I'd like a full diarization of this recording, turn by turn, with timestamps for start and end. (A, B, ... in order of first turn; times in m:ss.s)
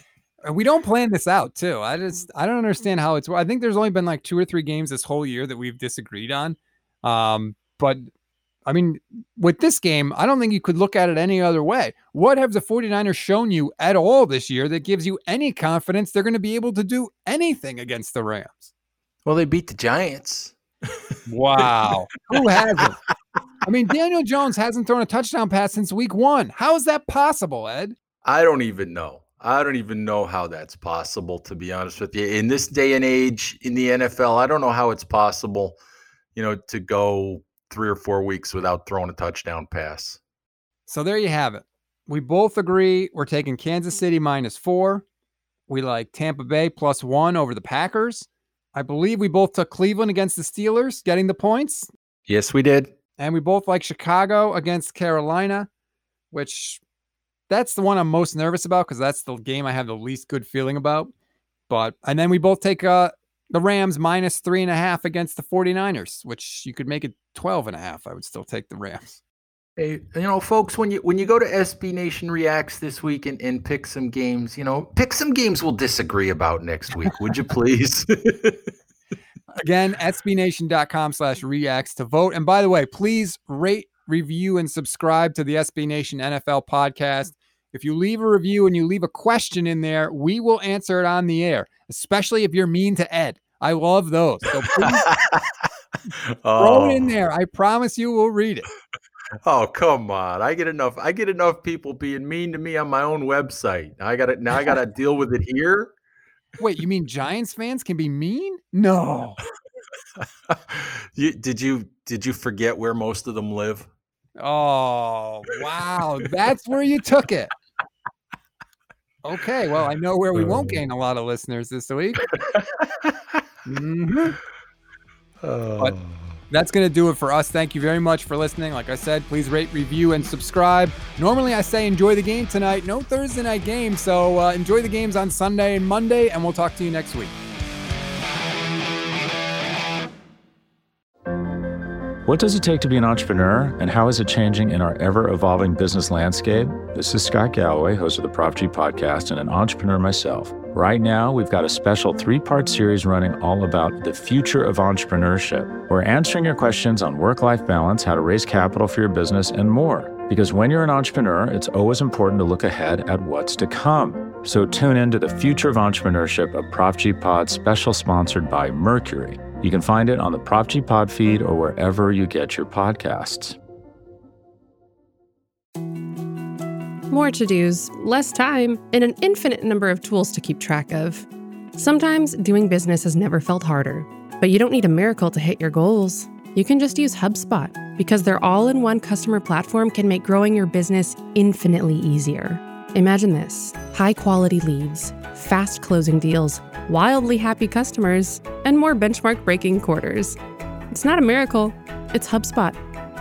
0:00.4-0:08.1 A
0:08.7-0:18.7 A
0:19.3-0:20.6 B
0:21.3-0:23.0 A
0:23.6-0:28.0 A
0:28.2-0:35.8 B
0:36.4-0:40.2 B
0:40.9-0:45.0 A
0:45.7-0:51.9 A
0:52.3-0:52.9 B
0:53.2-0:55.7 A
0:56.3-0:56.8 A
0:57.5-1:01.1 A
1:01.7-1:09.2 A
1:09.8-1:18.6 B
1:19.6-1:35.0 A
1:34.9-1:35.5 B
1:36.4-1:37.1 B
1:36.6-1:38.7 A
1:39.5-1:45.9 B
1:46.6-1:49.4 A
1:50.5-1:53.9 B
1:54.4-1:57.5 A
1:59.2-2:02.3 A
2:02.8-2:03.2 B
2:03.6-2:04.4 A
2:05.4-2:06.0 B
2:06.5-2:17.3 A
2:22.2-2:53.6 C
2:57.1-3:20.4 D
3:20.9-3:22.8 D